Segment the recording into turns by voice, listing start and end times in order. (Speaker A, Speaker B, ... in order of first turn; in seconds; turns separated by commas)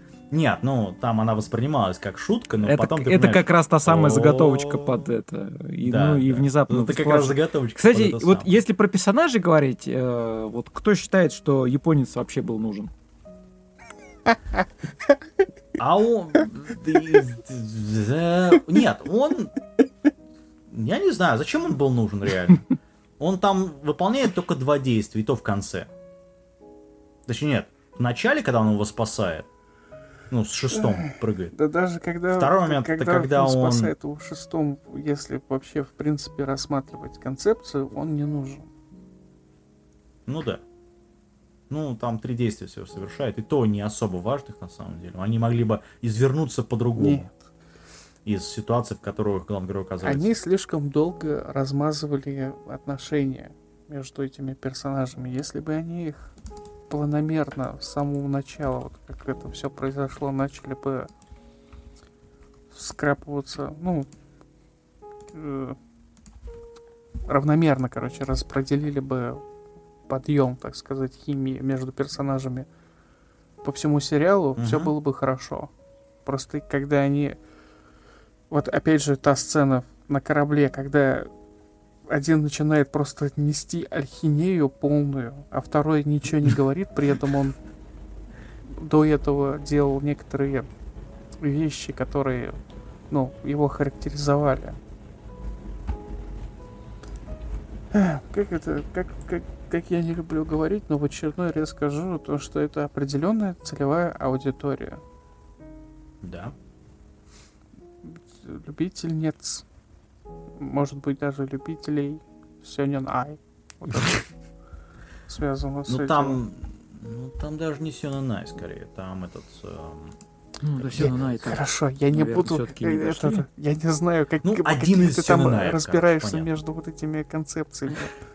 Speaker A: 0.3-5.1, Speaker B: 2.6-12.9, Speaker A: 5.8-8.5, Speaker A: 15.8-19.5, Speaker A: 20.7-22.6, Speaker A: 23.2-25.9, Speaker A: 27.2-29.5, Speaker A: 30.3-31.5, Speaker C: 30.7-38.7, Speaker A: 32.3-33.9, Speaker A: 40.3-40.6, Speaker A: 41.7-47.3, Speaker C: 47.0-47.3, Speaker A: 48.2-50.3, Speaker C: 50.0-56.3, Speaker C: 56.9-61.1, Speaker C: 62.7-64.1, Speaker C: 65.3-65.8, Speaker C: 67.3-69.4, Speaker C: 70.1-72.7, Speaker C: 73.6-75.7, Speaker A: 74.6-74.9, Speaker C: 76.2-77.4, Speaker C: 78.5-81.3, Speaker C: 82.1-87.6, Speaker C: 88.7-90.7, Speaker C: 91.4-92.6, Speaker C: 93.1-94.8, Speaker C: 97.9-105.0, Speaker A: 106.2-106.5, Speaker C: 108.0-109.6, Speaker C: 110.6-114.2, Speaker C: 115.3-116.4, Speaker A: 115.9-120.2, Speaker B: 120.6-123.4, Speaker A: 120.7-121.5, Speaker C: 121.0-128.1, Speaker A: 124.4-126.5